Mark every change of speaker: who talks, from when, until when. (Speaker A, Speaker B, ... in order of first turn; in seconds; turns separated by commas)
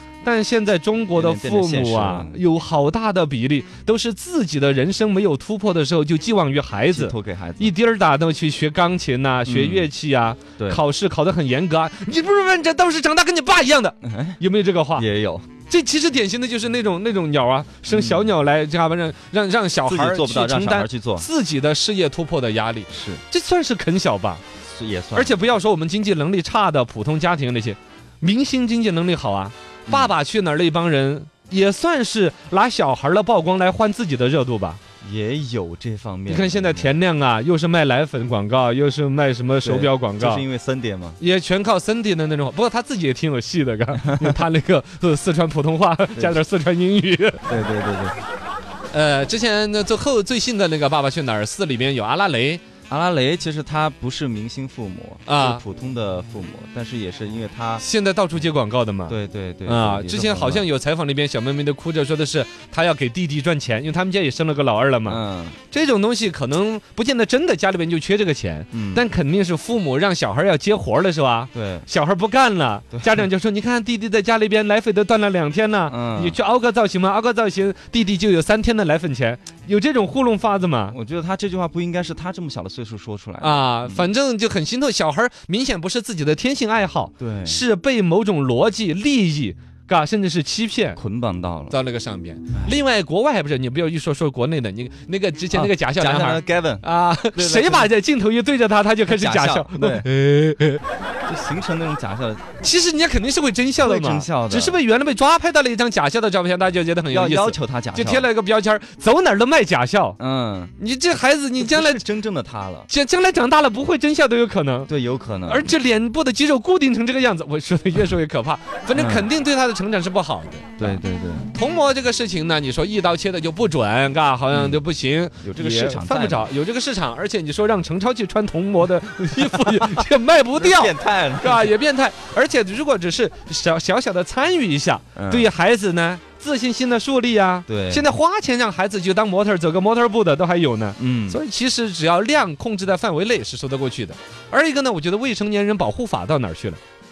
Speaker A: 0.2-15.1, Speaker B: 1.1-2.4, Speaker B: 6.9-7.7, Speaker B: 9.5-9.9, Speaker B: 14.0-14.4, Speaker B: 15.0-15.5, Speaker A: 15.7-24.4, Speaker B: 17.9-18.4, Speaker B: 19.9-21.3, Speaker B: 22.9-23.2, Speaker B: 24.6-25.4, Speaker A: 25.1-34.8, Speaker B: 29.9-30.1, Speaker B: 35.0-36.9, Speaker A: 36.3-40.5, Speaker B: 39.6-41.2, Speaker A: 41.2-47.5, Speaker B: 44.0-44.4, Speaker B: 46.1-46.4, Speaker B: 47.5-48.1, Speaker A: 48.9-52.6, Speaker B: 52.9-57.9, Speaker A: 55.3-55.6, Speaker A: 57.8-81.0, Speaker B: 59.1-60.7, Speaker B: 65.1-65.6, Speaker B: 68.7-69.0, Speaker B: 71.5-71.9, Speaker B: 75.9-76.4, Speaker B: 80.9-84.1, Speaker A: 83.4-91.0, Speaker B: 87.2-87.6, Speaker B: 91.0-91.8, Speaker A: 91.7-100.8, Speaker B: 95.5-97.9, Speaker B: 99.1-100.1, Speaker B: 101.2-102.5, Speaker A: 102.6-110.2, Speaker B: 103.8-104.8, Speaker B: 107.1-108.3, Speaker B: 110.2-110.7, Speaker A: 110.8-112.0, Speaker B: 111.6-112.9, Speaker A: 112.9-114.9, Speaker B: 114.9-115.7, Speaker A: 115.5-121.0, Speaker B: 118.9-119.3, Speaker B: 120.8-121.5, Speaker A: 121.5-146.8, Speaker B: 124.5-124.8, Speaker B: 125.4-126.5, Speaker B: 129.8-131.7, Speaker B: 135.2-135.5, Speaker B: 137.7-138.1, Speaker B: 141.0-141.4